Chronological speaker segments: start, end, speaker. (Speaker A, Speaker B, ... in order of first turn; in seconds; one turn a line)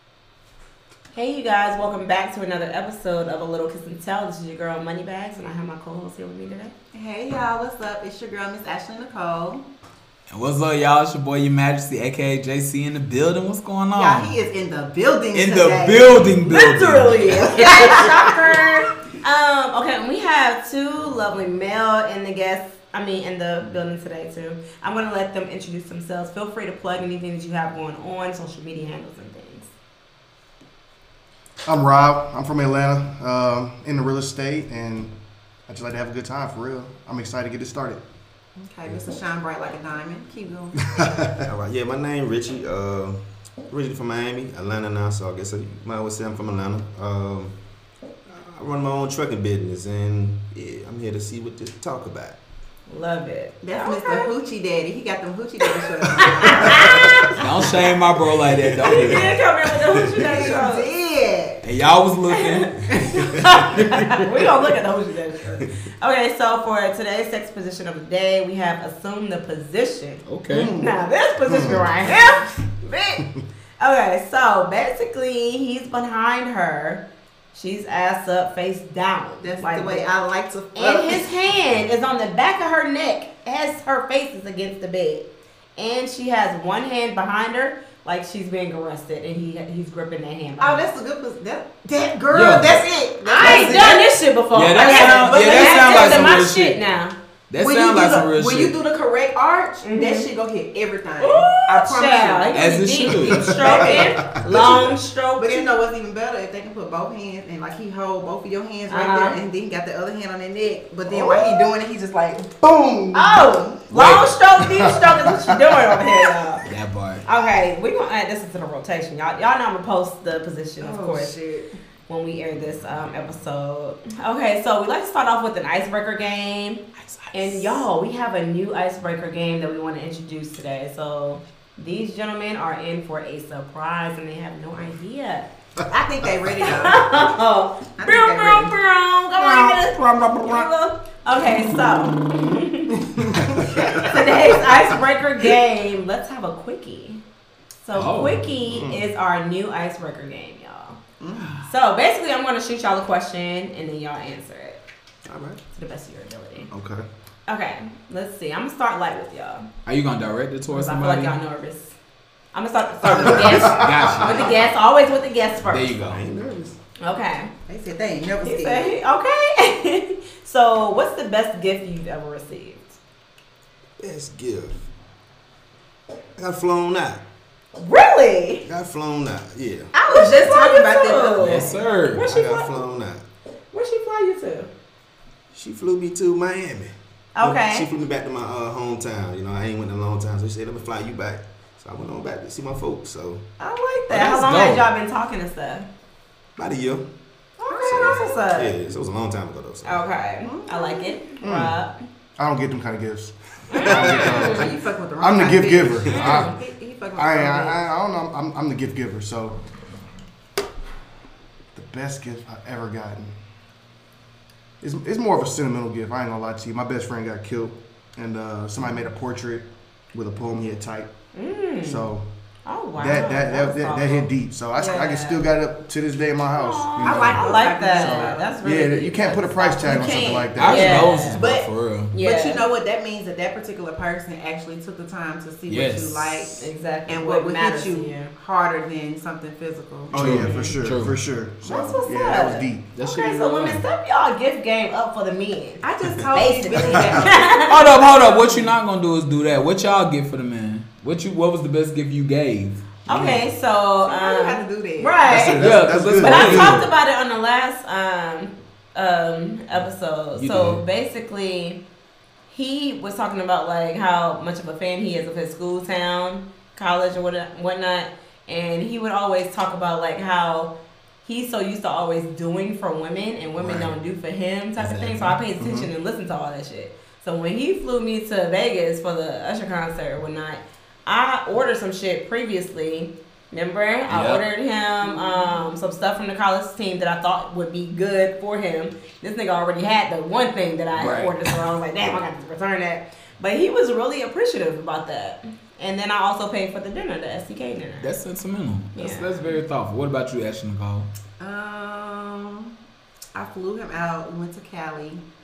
Speaker A: 1.1-6.7
Speaker B: 6.9-9.7
Speaker C: 10.3-14.3
Speaker B: 13.9-16.3
Speaker C: 15.3-18.0
Speaker A: 16.4-29.7
Speaker B: 17.5-18.3
Speaker D: 31.6-35.1
Speaker D: 35.7-38.0
Speaker B: 38.6-41.0
Speaker D: 40.9-41.4
Speaker E: 41.4-47.5
Speaker E: 48.3-52.4
Speaker A: 52.9-54.3
Speaker B: 53.6-57.5
Speaker A: 55.7-57.4
Speaker C: 57.4-59.3
Speaker E: 58.5-59.2
Speaker A: 58.8-60.9
Speaker B: 60.1-61.6
Speaker C: 61.6-62.7
Speaker A: 62.3-73.3
Speaker C: 70.2-70.7
Speaker B: 70.5-70.9
Speaker D: 71.5-71.9
Speaker A: 73.8-80.1
Speaker B: 79.4-81.3
Speaker A: 80.7-90.8
Speaker B: 90.6-94.2
Speaker C: 92.3-92.8
Speaker A: 93.2-97.1
Speaker C: 93.4-93.7
Speaker C: 94.5-96.8
Speaker B: 94.8-96.4
Speaker C: 97.5-98.8
Speaker B: 97.6-113.8
Speaker A: 99.8-100.3
Speaker A: 101.2-105.8
Speaker C: 102.5-103.4
Speaker D: 103.3-104.0
Speaker A: 108.9-109.4
Speaker A: 111.1-111.6
Speaker A: 113.1-116.6
Speaker C: 113.9-114.3
Speaker D: 114.6-115.7
Speaker C: 116.7-117.2
Speaker A: 117.2-121.3
Speaker B: 120.8-121.8
Speaker A: 122.1-126.8
Speaker C: 127.0-127.8
Speaker A: 127.3-135.5
Speaker B: 135.9-137.1
Speaker A: 136.6-143.1
Speaker B: 138.0-138.7
Speaker B: 139.4-139.8
Speaker D: 143.2-144.0
Speaker A: 143.8-147.2
Speaker A: 147.8-151.0
Speaker C: 147.9-148.5
Speaker D: 148.7-149.0
Speaker B: 151.2-151.7
Speaker A: 151.7-154.8
Speaker E: 155.2-155.6
Speaker A: 155.8-156.7
Speaker D: 156.7-157.0
Speaker A: 157.5-159.7
Speaker C: 159.8-161.3
Speaker A: 160.7-161.9
Speaker A: 162.5-165.9
Speaker D: 163.1-164.2
Speaker C: 163.5-164.6
Speaker E: 164.2-164.6
Speaker C: 165.7-166.2
Speaker E: 166.0-166.8
Speaker A: 167.0-167.5
Speaker B: 167.7-168.9
Speaker A: 168.4-173.0
Speaker E: 174.0-174.8
Speaker E: 176.4-177.2
Speaker A: 177.8-178.6
Speaker E: 178.6-179.9
Speaker A: 179.9-182.8
Speaker B: 180.0-181.7
Speaker C: 181.4-182.2
Speaker E: 182.2-183.2
Speaker A: 183.7-184.7
Speaker E: 185.5-193.4
Speaker A: 187.3-187.9
Speaker A: 193.6-195.9
Speaker C: 194.1-194.8
Speaker E: 196.6-197.1
Speaker A: 197.6-198.8
Speaker B: 197.7-198.4
Speaker E: 197.8-200.1
Speaker A: 199.8-201.9
Speaker B: 200.4-201.3
Speaker D: 201.4-201.7
Speaker D: 202.4-206.5
Speaker A: 203.7-204.7
Speaker E: 203.8-204.5
Speaker B: 204.1-207.8
Speaker A: 206.1-206.6
Speaker D: 207.2-209.6
Speaker D: 211.7-213.3
Speaker D: 214.8-221.1
Speaker A: 221.3-222.1
Speaker D: 221.8-222.2
Speaker A: 222.7-225.5
Speaker D: 223.0-231.2
Speaker A: 226.5-231.4
Speaker B: 227.0-228.5
Speaker B: 229.8-231.7
Speaker C: 230.6-232.1
Speaker A: 232.1-232.6
Speaker B: 232.2-240.2
Speaker C: 235.7-236.5
Speaker A: 236.6-238.3
Speaker D: 240.1-242.8
Speaker C: 240.1-241.2
Speaker A: 240.3-240.8
Speaker A: 241.6-247.9
Speaker C: 242.9-243.8
Speaker B: 245.8-248.7
Speaker C: 247.7-253.4
Speaker A: 253.1-255.6
Speaker B: 254.0-255.2
Speaker D: 255.2-256.7
Speaker E: 255.5-256.7
Speaker C: 255.6-256.9
Speaker A: 256.2-261.8
Speaker C: 260.3-260.8
Speaker A: 262.5-270.7
Speaker A: 271.2-298.1
Speaker E: 273.6-273.9
Speaker C: 274.8-275.4
Speaker D: 275.6-275.9
Speaker C: 284.1-284.4
Speaker B: 285.0-285.7
Speaker C: 290.9-291.6
Speaker C: 298.0-301.1
Speaker A: 298.9-299.6
Speaker B: 301.4-302.7
Speaker B: 303.3-305.2